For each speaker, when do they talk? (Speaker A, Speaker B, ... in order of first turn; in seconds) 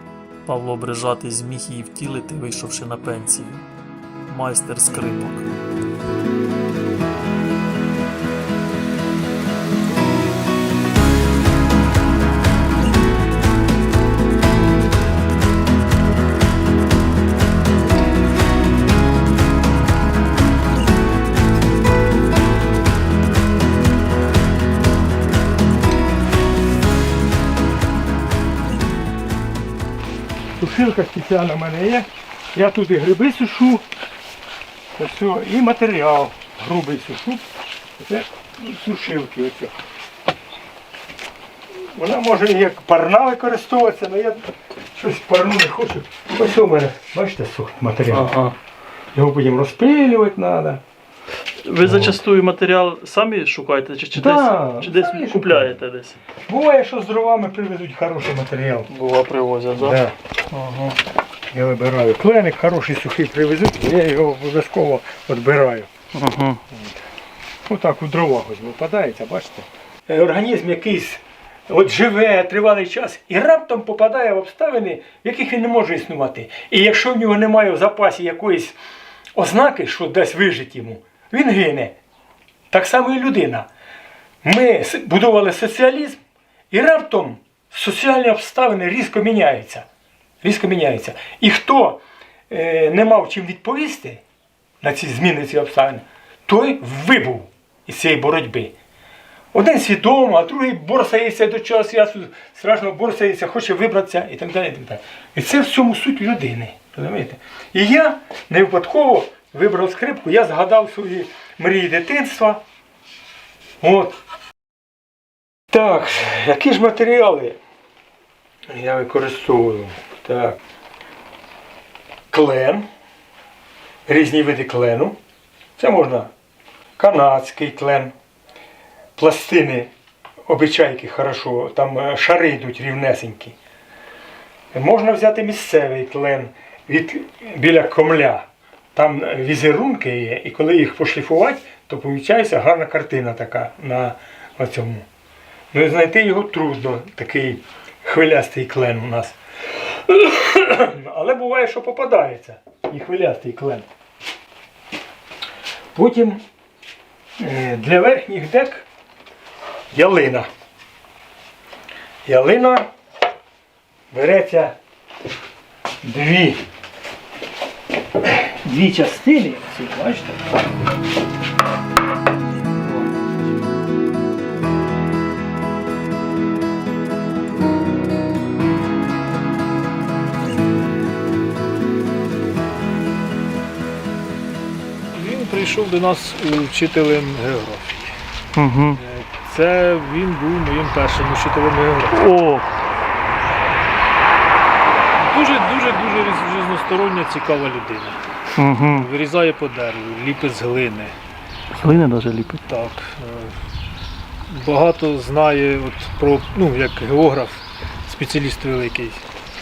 Speaker A: 0.5-3.7, 4.3-5.5, 48.1-48.6, 51.6-56.2, 58.9-61.0, 66.1-66.6, 188.6-189.0, 192.1-192.7, 198.6-199.1, 201.7-202.7
Speaker B: 30.6-33.9, 35.0-37.4, 38.0-39.7, 42.0-44.4, 45.0-48.3, 49.1-50.8, 54.2-55.8, 56.5-58.9, 59.8-60.1, 61.5-65.9, 67.7-78.8, 79.4-81.9, 82.7-83.7, 84.4-86.2, 86.7-89.8, 90.4-94.2, 94.8-98.7, 99.5-112.6, 113.8-114.2, 115.7-117.6, 118.7-120.6, 122.3-122.8, 124.1-125.2, 125.8-126.3, 127.0-128.1, 129.2-129.9, 130.5-133.6, 134.7-145.0, 145.7-153.9, 155.9-156.4, 157.4-158.9, 159.9-160.5, 162.3-162.9, 164.1-164.8, 166.0-166.6, 168.3-170.5
Speaker C: 185.1-188.2, 189.0-192.2, 195.2-198.2, 198.9-201.2, 202.7-203.6, 204.5-209.2